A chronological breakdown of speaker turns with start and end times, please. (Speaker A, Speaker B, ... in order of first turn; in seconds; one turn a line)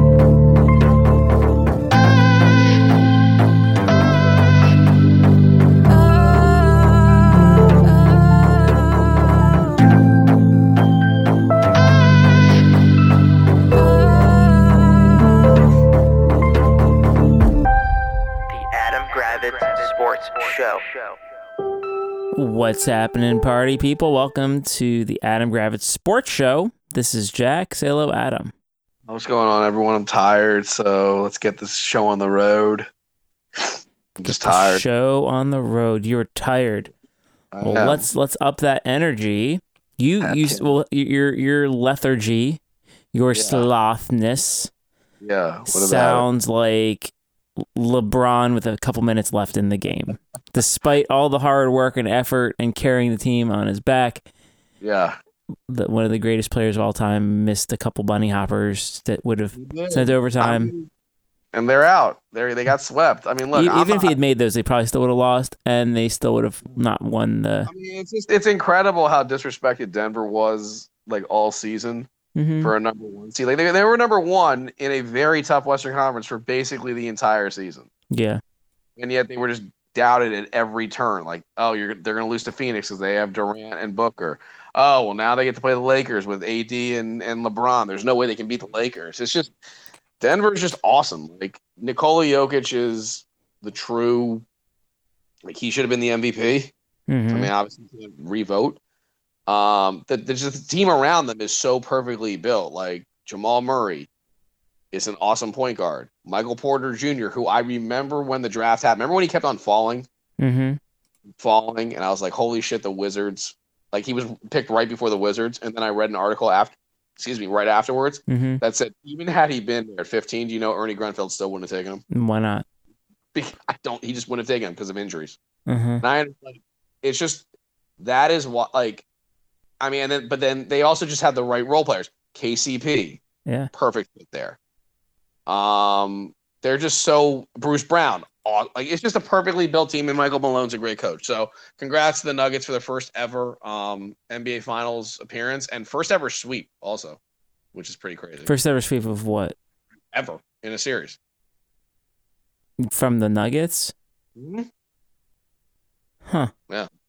Speaker A: 18.5-21.2
Speaker B: 22.3-28.5
Speaker C: 29.1-32.9
Speaker C: 33.6-34.8
Speaker B: 34.2-36.9
Speaker C: 37.5-38.0
Speaker B: 37.6-42.6
Speaker C: 40.2-40.6
Speaker B: 43.1-44.7
Speaker C: 43.3-43.7
Speaker C: 45.2-46.3
Speaker B: 45.7-54.2
Speaker C: 54.8-55.2
Speaker B: 55.7-60.7
Speaker C: 59.5-60.9
Speaker C: 61.5-64.2
Speaker B: 63.5-67.7
Speaker C: 67.7-72.1
Speaker B: 72.3-72.7
Speaker C: 72.6-77.9
Speaker B: 78.1-78.4
Speaker C: 79.0-89.5
Speaker C: 90.2-94.5
Speaker C: 95.5-96.7
Speaker B: 97.1-97.5
Speaker C: 97.3-98.8
Speaker C: 99.5-104.1
Speaker C: 104.9-110.1
Speaker B: 110.4-110.8
Speaker C: 111.4-122.0
Speaker B: 118.3-118.6
Speaker B: 122.1-122.7
Speaker C: 123.3-125.4
Speaker B: 125.7-126.0
Speaker C: 126.0-127.5
Speaker C: 128.0-129.1
Speaker C: 129.8-133.2
Speaker C: 133.7-134.6
Speaker C: 135.5-147.2
Speaker C: 147.7-148.5
Speaker B: 148.4-149.6
Speaker C: 150.1-151.2
Speaker B: 152.8-153.9
Speaker C: 154.4-154.7